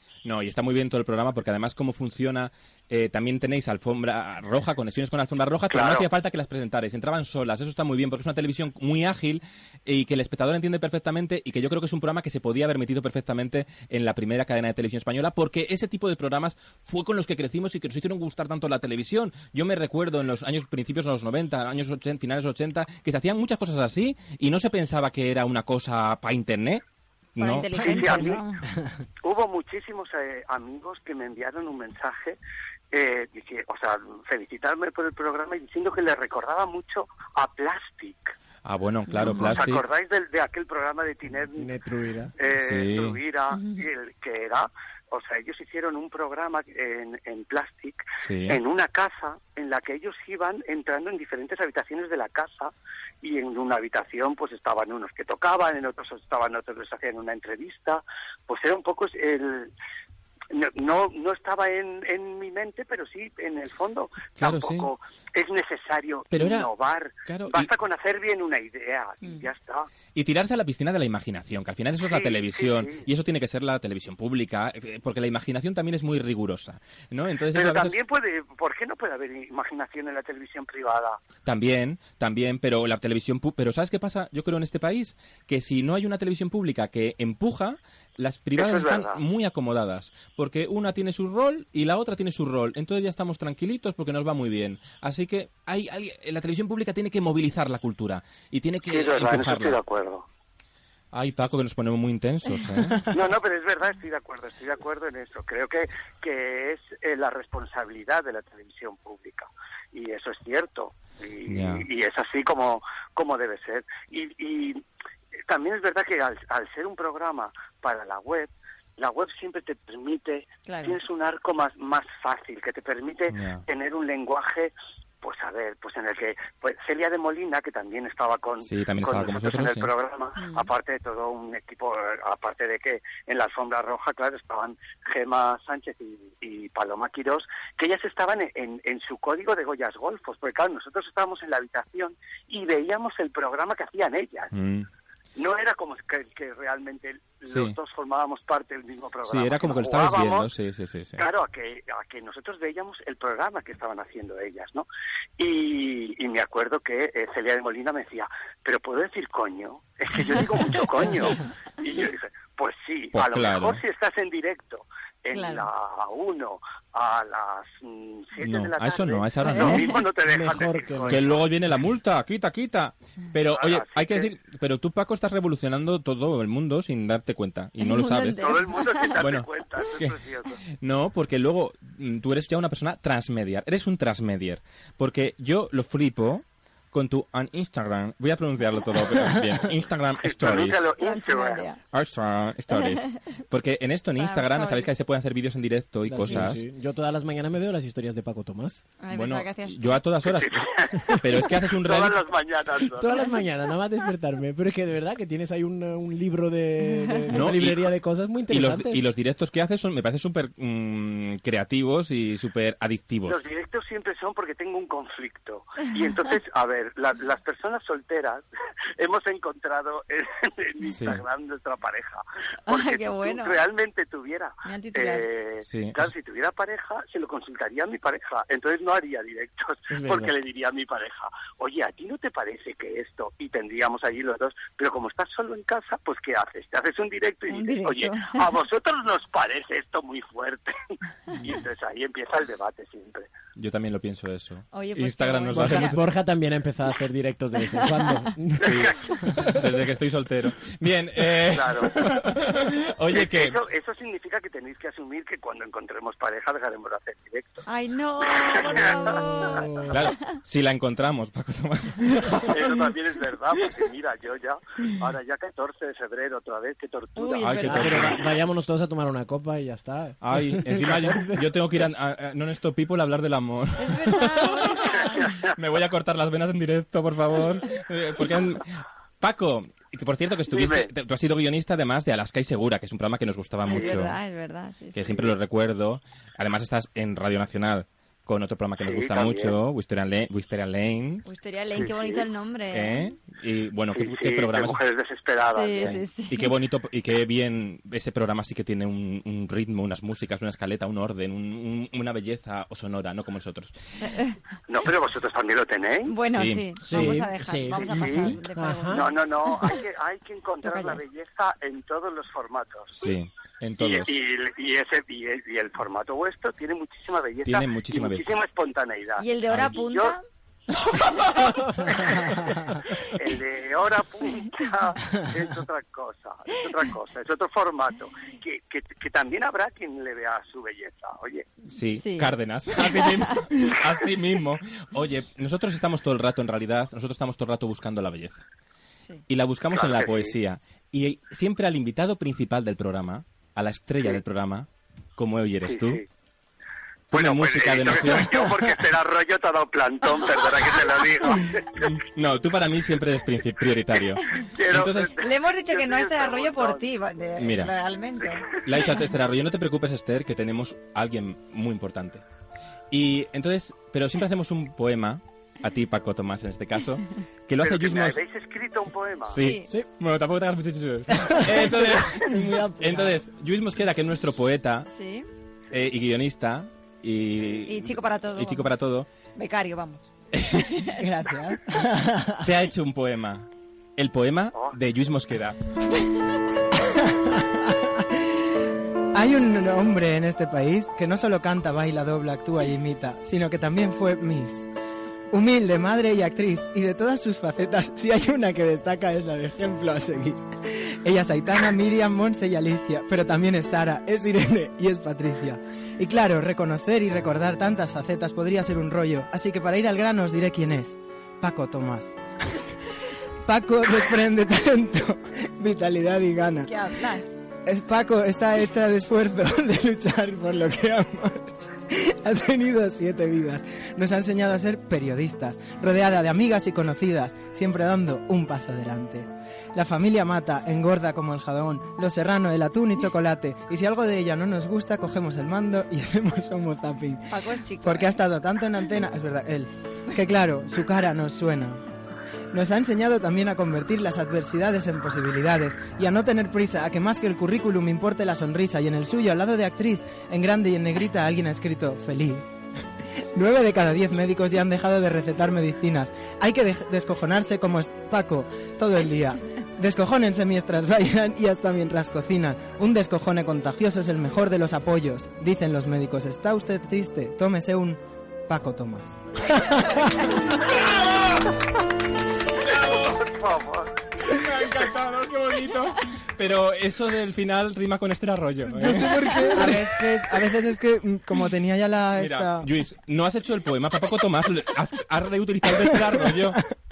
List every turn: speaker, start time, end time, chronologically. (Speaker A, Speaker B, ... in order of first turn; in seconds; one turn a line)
Speaker A: 0.2-26.8
Speaker B: 5.7-6.1
Speaker A: 27.4-28.2
Speaker C: 27.4-28.6
Speaker B: 27.8-28.4
Speaker B: 29.2-32.4
Speaker B: 32.9-38.3
Speaker A: 38.6-39.8
Speaker C: 39.1-39.6
Speaker B: 39.2-41.7
Speaker D: 41.5-42.3
Speaker B: 42.4-59.7
Speaker A: 42.6-43.2
Speaker C: 43.5-43.8
Speaker A: 48.2-48.6
Speaker B: 60.5-69.9
Speaker A: 64.4-64.9
Speaker A: 66.3-66.7
Speaker A: 67.2-67.7
Speaker A: 70.1-77.9
Speaker B: 72.0-73.0
Speaker B: 77.5-81.2
Speaker A: 81.4-99.8
Speaker B: 88.6-89.2
Speaker B: 98.9-100.2
Speaker A: 101.1-103.0
Speaker B: 103.1-114.8
Speaker A: 111.5-111.8
Speaker B: 115.5-144.5
Speaker C: 120.7-121.0
Speaker A: 123.3-123.6
Speaker A: 128.6-129.9
Speaker C: 130.4-130.7
Speaker A: 144.5-144.9
Speaker B: 145.3-150.5
Speaker A: 147.5-147.8
Speaker A: 149.3-151.2
Speaker B: 151.2-154.8
Speaker B: 155.4-171.4
Speaker A: 163.1-163.8
Speaker C: 165.3-165.7
Speaker A: 168.4-169.9
Speaker C: 169.4-170.0
Speaker D: 170.2-171.3
Speaker A: 171.1-178.6
Speaker B: 173.5-174.3
Speaker C: 177.8-179.1
Speaker B: 178.4-180.6
Speaker A: 179.2-180.1
Speaker A: 180.8-190.8
Speaker B: 190.2-191.7
Speaker C: 191.0-191.8
Speaker A: 191.9-196.6
Speaker C: 192.7-193.1
Speaker C: 194.2-194.9
Speaker D: 196.1-198.8
Speaker C: 199.0-200.0
Speaker A: 199.1-202.2
Speaker B: 200.2-203.2
Speaker D: 202.9-209.0
Speaker A: 207.3-207.9
Speaker A: 208.5-213.4
Speaker B: 213.3-218.4
Speaker B: 219.0-240.7
Speaker A: 220.9-221.2
Speaker C: 222.7-223.6
Speaker C: 224.6-225.3
Speaker A: 225.7-226.1
Speaker D: 229.9-230.3
Speaker C: 237.5-238.4
Speaker B: 241.4-243.3
Speaker A: 243.6-246.0
Speaker C: 244.7-246.0
Speaker D: 245.5-249.6
Speaker C: 247.8-248.1
Speaker A: 248.6-253.6
Speaker B: 251.5-252.1
Speaker B: 253.1-257.6
Speaker C: 257.6-259.9
Speaker B: 258.5-259.4
Speaker D: 259.6-259.9
Speaker A: 259.9-262.7
Speaker B: 262.4-267.5
Speaker C: 267.2-268.1
Speaker A: 267.4-268.1
Speaker D: 267.6-271.4
Speaker A: 270.2-274.7
Speaker C: 273.8-275.4
Speaker A: 275.3-284.2
Speaker B: 280.5-280.9
Speaker C: 283.6-285.3
Speaker B: 283.7-284.0
Speaker A: 284.9-291.2
Speaker B: 288.8-289.5
Speaker C: 291.2-293.1
Speaker B: 291.7-292.2
Speaker A: 292.7-294.8
Speaker B: 293.9-296.0
Speaker C: 295.5-296.5
Speaker A: 295.8-303.7
Speaker C: 304.0-304.4
Speaker B: 304.7-306.1
Speaker C: 306.1-309.1
Speaker A: 306.3-307.2
Speaker D: 306.8-309.1
Speaker B: 307.8-308.3
Speaker B: 308.9-313.1
Speaker C: 310.6-311.0
Speaker A: 313.0-314.1
Speaker B: 313.8-320.2
Speaker A: 317.4-318.3
Speaker C: 319.2-320.2
Speaker A: 319.5-319.8
Speaker B: 321.0-331.4
Speaker A: 331.7-338.4
Speaker C: 332.0-332.3
Speaker C: 332.8-333.3
Speaker A: 339.3-346.0
Speaker B: 339.7-340.3
Speaker B: 345.6-346.0
Speaker A: 347.1-348.7
Speaker B: 347.1-351.9
Speaker A: 351.7-355.1
Speaker B: 354.4-356.9
Speaker C: 355.2-358.6
Speaker A: 357.4-357.7
Speaker A: 358.6-362.2
Speaker A: 362.9-368.2
Speaker B: 367.6-369.4
Speaker A: 369.3-374.9
Speaker C: 369.4-369.6
Speaker E: 372.2-373.1
Speaker C: 374.9-375.3
Speaker A: 375.7-379.1
Speaker C: 377.7-378.7
Speaker C: 379.4-380.1
Speaker A: 380.3-380.9
Speaker E: 380.9-382.5
Speaker A: 382.4-385.6
Speaker E: 386.9-388.5
Speaker E: 389.1-394.7
Speaker E: 395.3-412.2
Speaker E: 413.4-416.9
Speaker C: 416.6-417.3
Speaker E: 417.6-441.8
Speaker C: 437.3-438.2
Speaker E: 442.5-452.4
Speaker E: 453.3-470.4
Speaker B: 472.6-473.9
Speaker A: 474.2-479.8
Speaker D: 478.7-479.6
Speaker E: 479.4-482.7
Speaker A: 482.2-486.6